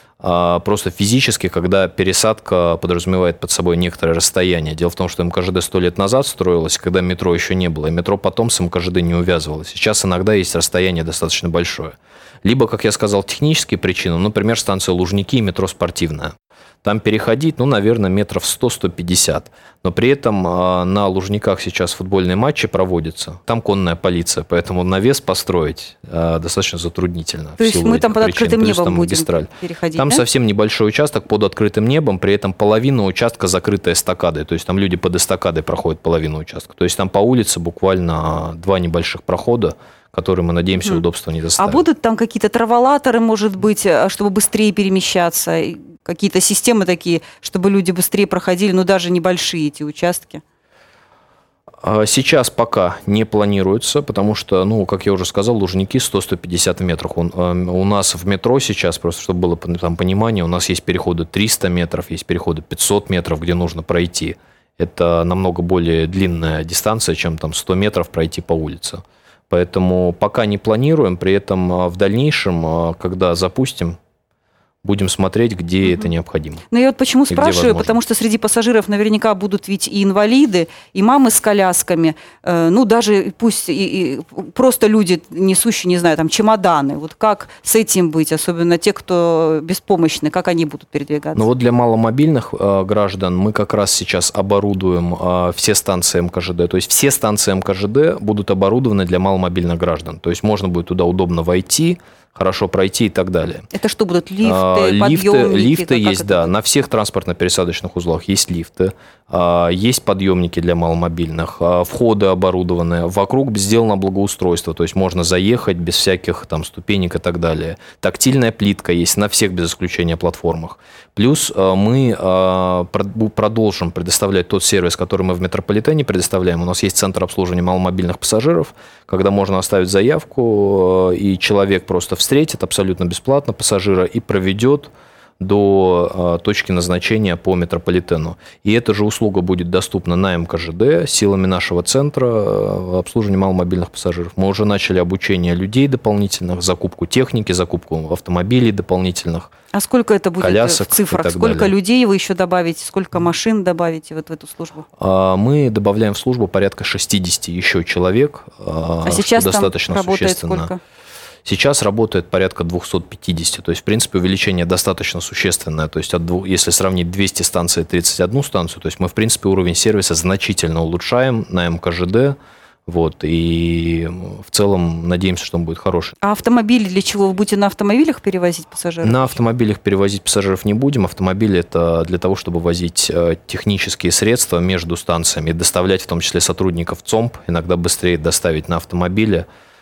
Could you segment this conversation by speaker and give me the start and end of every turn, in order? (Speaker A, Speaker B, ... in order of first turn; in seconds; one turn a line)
Speaker A: 0.2-41.8
Speaker B: 27.6-30.2
Speaker B: 41.6-50.4
Speaker A: 51.8-74.0
Speaker A: 74.8-76.7
Speaker B: 76.7-91.5
Speaker A: 77.3-77.9
Speaker A: 91.3-103.7
Speaker B: 103.7-106.5
Speaker A: 104.4-149.5
Speaker B: 149.7-154.9
Speaker A: 150.4-151.7
Speaker A: 155.0-160.7
Speaker B: 159.1-160.8
Speaker A: 161.4-176.2
Speaker B: 176.2-179.4
Speaker A: 179.0-189.5